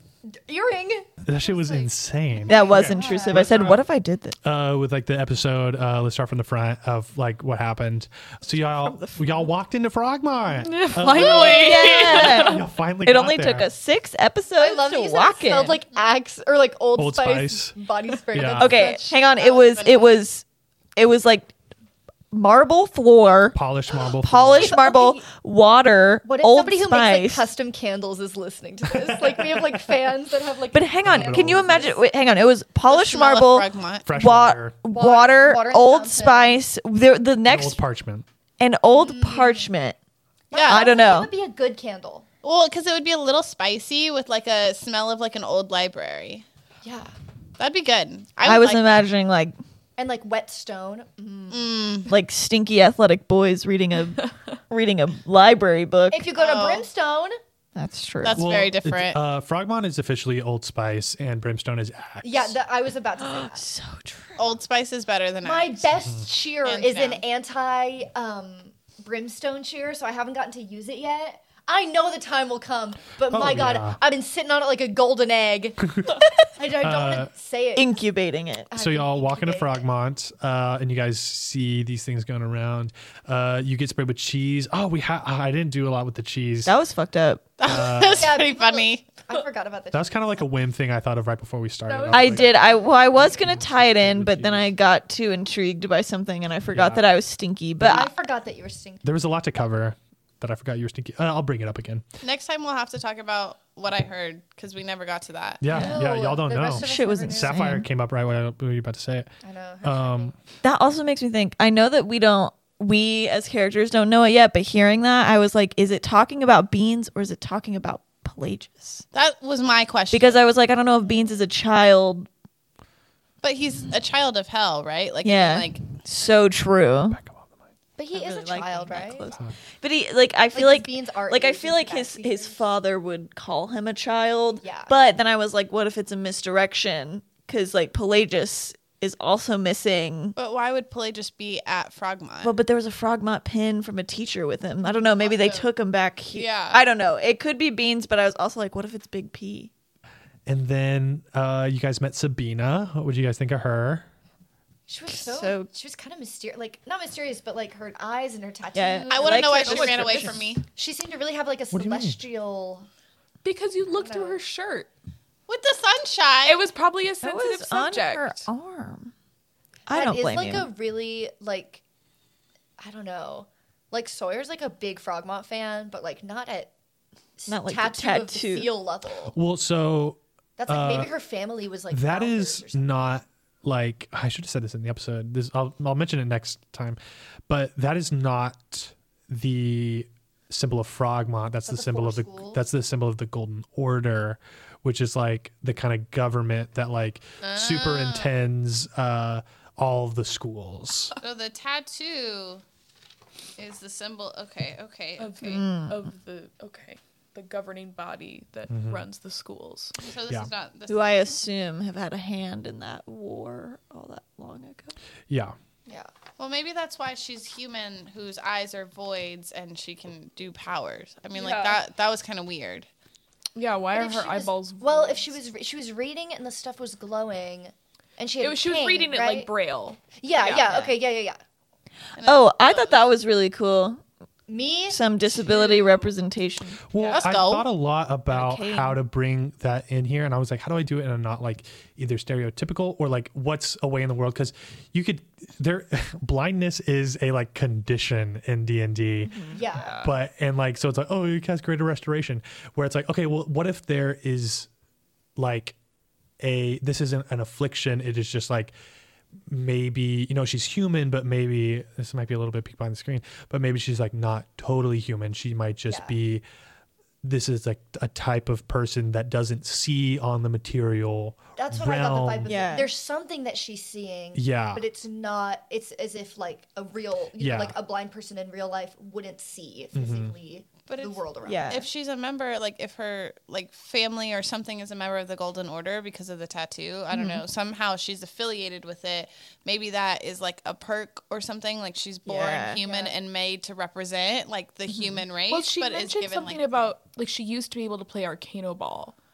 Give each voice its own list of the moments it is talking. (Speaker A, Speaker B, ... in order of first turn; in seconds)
Speaker A: 0.2-1.9, 2.4-3.6, 14.6-19.6, 24.5-25.2, 26.2-32.0, 34.9-36.6, 38.9-39.7, 40.5-42.2, 46.8-47.1, 50.0-51.8, 56.1-57.4, 62.2-63.6, 65.4-75.9, 76.5-78.0, 78.7-79.8, 88.0-90.1, 97.8-99.0, 105.7-107.6, 109.4-110.3, 128.0-129.3, 130.5-132.6, 134.6-134.9, 145.2-145.6, 154.9-160.1, 160.7-162.9, 163.9-164.4, 169.9-171.8, 172.8-176.7, 177.4-179.3, 180.6-182.9, 191.7-192.6, 223.9-229.5, 230.2-231.4, 234.5-235.0, 249.5-250.0, 265.9-266.2, 271.6-281.8, 292.8-293.1
Speaker B: 1.2-3.8, 4.4-13.7, 16.9-17.8, 18.3-18.8, 23.5-24.8, 31.0-31.9, 34.0-34.8, 37.5-38.2, 58.3-62.5, 73.3-74.0, 75.9-76.3, 76.8-77.3, 78.7-86.7, 87.6-88.3, 89.9-92.5, 93.2-94.7, 96.7-97.0, 99.0-102.0, 105.6-110.3, 127.1-127.4, 150.5-154.1, 161.7-162.2, 179.3-181.1, 181.9-201.2, 208.7-209.1, 215.3-215.6, 236.9-254.7, 255.3-255.7, 256.4-258.7, 259.5-266.4, 267.2-272.6, 274.3-274.8, 277.4-277.8, 279.9-280.3
Speaker C: 2.5-4.4, 8.5-9.4, 11.2-15.8, 18.6-20.4, 20.9-21.5, 22.3-27.5, 30.7-37.8, 38.6-40.0, 40.7-41.3, 48.4-49.5, 52.1-56.3, 57.7-58.5, 63.2-64.5, 77.7-78.7, 86.7-87.5, 92.1-98.1, 105.7-106.0, 106.8-107.9, 110.6-119.0, 120.1-122.3, 125.2-127.2, 128.1-140.3, 142.4-149.7, 155.1-155.7, 158.7-159.9, 167.2-169.1, 169.9-170.7, 177.5-178.7, 205.4-206.0, 210.9-214.9, 232.2-234.0, 234.9-236.8, 238.3-239.0, 249.2-249.6, 272.4-272.9, 281.4-281.9, 287.1-287.4, 292.3-292.8, 294.9-295.2
Speaker D: 10.6-12.6, 91.9-92.5, 159.6-160.5, 163.4-164.9, 166.4-168.4, 205.2-210.0, 221.3-221.8, 223.5-225.3, 228.4-230.9, 235.4-236.1, 249.7-250.1, 295.5-299.1
Speaker E: 19.4-20.2, 32.9-34.1, 40.5-40.9, 42.4-46.4, 47.6-49.0, 51.5-52.1, 56.4-56.9, 58.2-59.2, 64.4-65.8, 66.6-67.2, 87.6-89.0, 102.2-105.6, 119.1-120.4, 123.4-125.9, 140.3-142.5, 145.3-145.6, 146.3-146.8, 159.1-160.6, 165.5-166.6, 197.4-198.3, 201.2-202.6, 203.6-205.4, 210.0-211.1, 216.4-222.9, 232.1-233.1, 237.0-237.7, 280.9-296.9